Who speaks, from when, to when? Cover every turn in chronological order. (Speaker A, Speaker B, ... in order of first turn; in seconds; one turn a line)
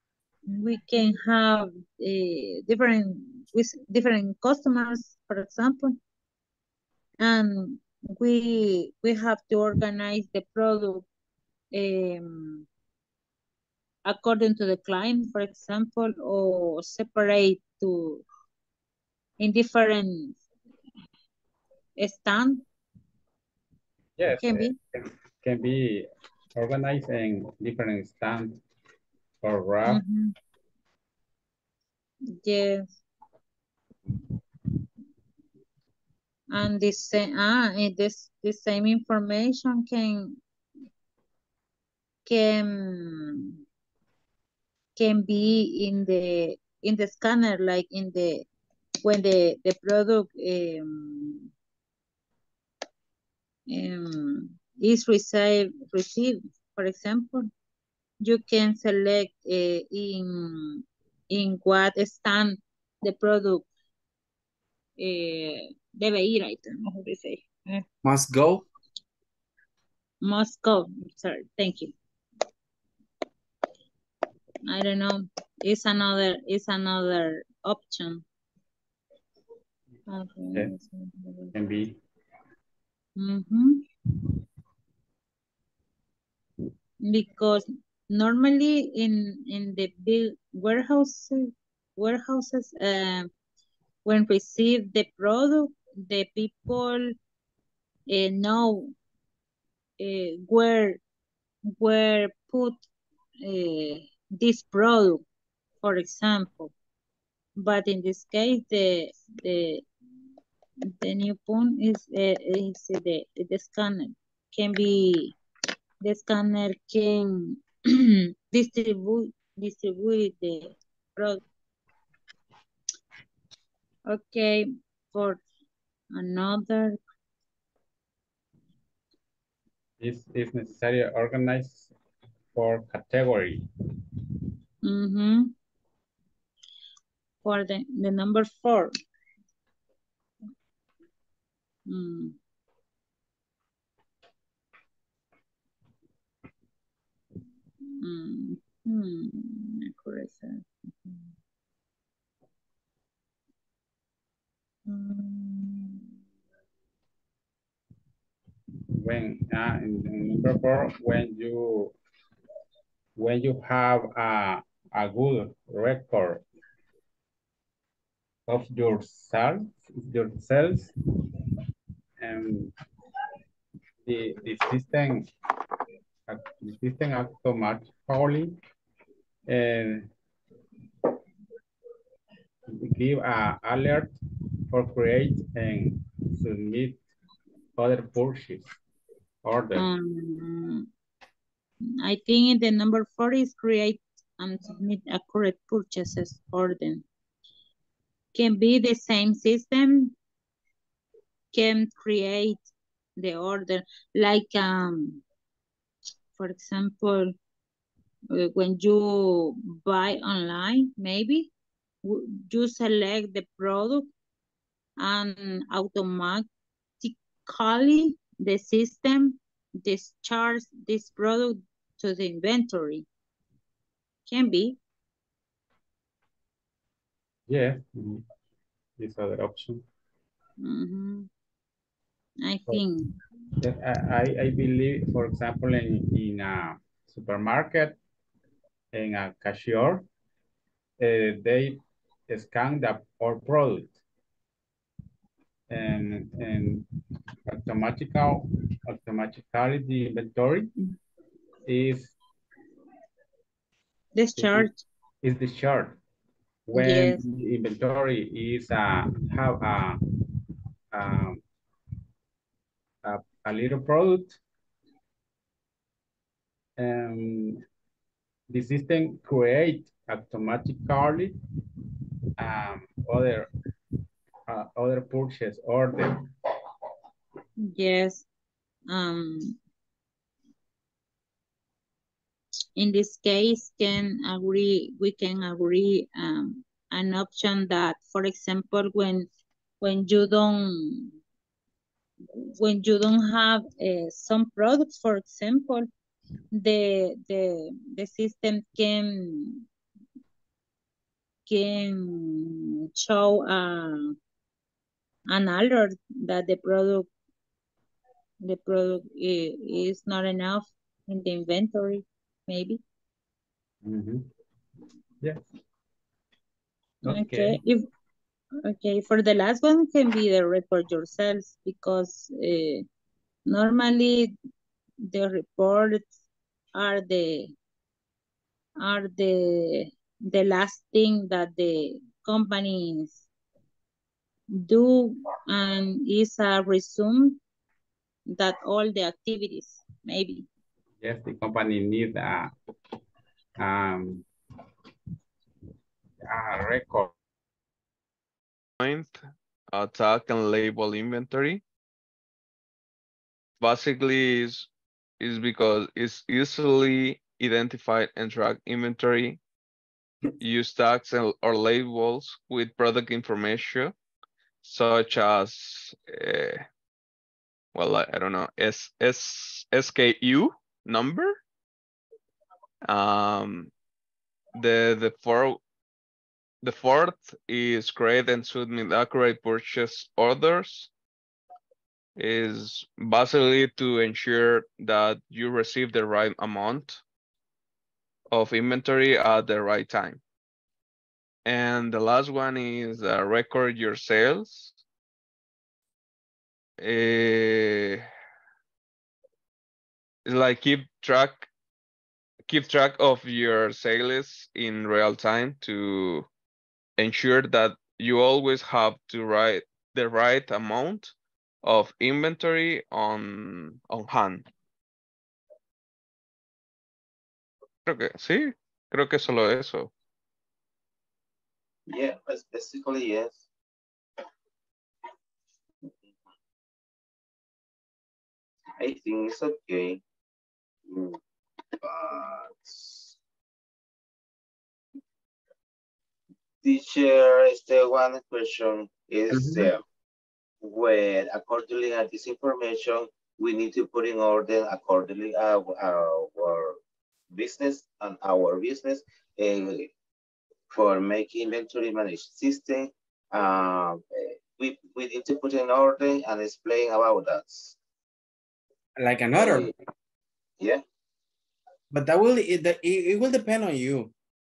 Speaker A: 0.5-6.0
Speaker A: 7.2-11.1
Speaker A: 11.7-12.7
Speaker A: 14.1-18.2
Speaker A: 19.4-20.4
Speaker A: 22.0-22.6
Speaker B: 24.2-28.6
Speaker A: 24.4-24.8
Speaker B: 29.4-30.0
Speaker A: 29.9-30.4
Speaker A: 32.4-33.0
Speaker A: 36.5-40.4
Speaker A: 42.3-43.6
Speaker A: 45.0-48.5
Speaker A: 49.0-51.5
Speaker A: 53.7-57.5
Speaker A: 58.2-63.7
Speaker A: 65.0-67.8
Speaker C: 68.0-68.7
Speaker A: 70.2-71.9
Speaker A: 74.7-78.2
Speaker A: 80.1-81.5
Speaker B: 81.5-82.0
Speaker A: 83.2-83.8
Speaker A: 87.0-93.3
Speaker A: 94.0-97.1
Speaker A: 98.1-98.9
Speaker A: 100.0-101.0
Speaker A: 101.8-102.8
Speaker A: 103.4-105.2
Speaker A: 105.8-106.7
Speaker A: 107.6-109.8
Speaker A: 111.0-115.4
Speaker A: 116.0-121.4
Speaker A: 124.1-125.4
Speaker A: 126.1-127.0
Speaker B: 130.0-131.9
Speaker B: 132.5-133.6
Speaker A: 134.8-135.5
Speaker A: 137.4-138.9
Speaker A: 141.9-142.4
Speaker A: 148.0-151.3
Speaker A: 154.9-156.1
Speaker B: 159.0-161.9
Speaker B: 163.2-166.4
Speaker B: 168.5-170.9
Speaker B: 172.2-172.7
Speaker B: 174.1-175.3
Speaker B: 176.3-178.6
Speaker B: 179.5-180.1
Speaker B: 182.7-184.1
Speaker B: 184.7-187.0
Speaker B: 187.8-188.7
Speaker B: 189.4-189.9
Speaker A: 189.8-190.9
Speaker A: 192.0-197.0
Speaker A: 198.3-200.1
Speaker A: 201.5-202.6
Speaker A: 203.2-205.2
Speaker A: 206.4-207.3
Speaker A: 208.3-211.5
Speaker A: 212.0-214.1
Speaker A: 215.0-216.5
Speaker A: 217.0-223.1
Speaker A: 224.3-224.8
Speaker B: 227.5-228.3
Speaker B: 229.0-229.8
Speaker A: 230.6-231.3
Speaker A: 232.4-233.2
Speaker B: 233.6-238.0
Speaker B: 238.9-240.1
Speaker B: 241.0-244.0
Speaker B: 245.7-246.8
Speaker B: 247.5-250.7
Speaker B: 251.7-252.2
Speaker A: 254.2-254.8
Speaker B: 254.4-254.7
Speaker B: 255.2-256.0
Speaker B: 256.7-260.0
Speaker A: 256.7-257.2
Speaker B: 260.9-261.4
Speaker B: 263.0-264.4
Speaker B: 266.8-267.6
Speaker B: 268.5-271.4
Speaker B: 272.4-273.5
Speaker B: 274.5-276.3
Speaker A: 277.6-278.3
Speaker A: 278.9-279.6
Speaker A: 282.8-289.3
Speaker A: 289.8-291.1
Speaker A: 292.3-295.9
Speaker A: 296.5-299.6
Speaker A: 301.5-304.1
Speaker A: 305.3-307.1
Speaker A: 308.4-312.8
Speaker B: 313.8-314.3
Speaker B: 315.2-315.5
Speaker B: 317.0-317.6
Speaker A: 317.1-317.9
Speaker A: 318.6-322.8
Speaker A: 323.5-324.3
Speaker A: 325.0-326.1
Speaker A: 326.7-327.5
Speaker A: 328.8-333.2
Speaker A: 334.5-337.4
Speaker A: 338.3-340.5
Speaker B: 341.0-342.5
Speaker B: 343.6-344.3
Speaker B: 346.2-347.1
Speaker D: 348.8-349.2
Speaker D: 349.7-351.6
Speaker D: 353.6-354.7
Speaker D: 355.2-359.4
Speaker D: 360.4-363.9
Speaker D: 364.6-366.6
Speaker D: 367.8-371.4
Speaker D: 372.8-373.7
Speaker D: 374.6-375.6
Speaker D: 376.6-380.9
Speaker D: 382.2-387.0
Speaker D: 388.3-390.2
Speaker D: 391.4-394.8
Speaker D: 396.8-398.1
Speaker D: 400.2-401.5
Speaker D: 402.5-406.3
Speaker D: 407.0-414.5
Speaker D: 417.9-419.9
Speaker E: 421.9-423.5
Speaker E: 428.8-430.0
Speaker E: 430.9-431.2
Speaker E: 431.8-433.2
Speaker E: 436.6-439.8
Speaker C: 439.3-439.7
Speaker E: 440.6-446.8
Speaker E: 447.3-449.9
Speaker E: 450.7-457.8
Speaker C: 459.0-459.7
Speaker E: 459.4-459.7
Speaker C: 461.9-464.1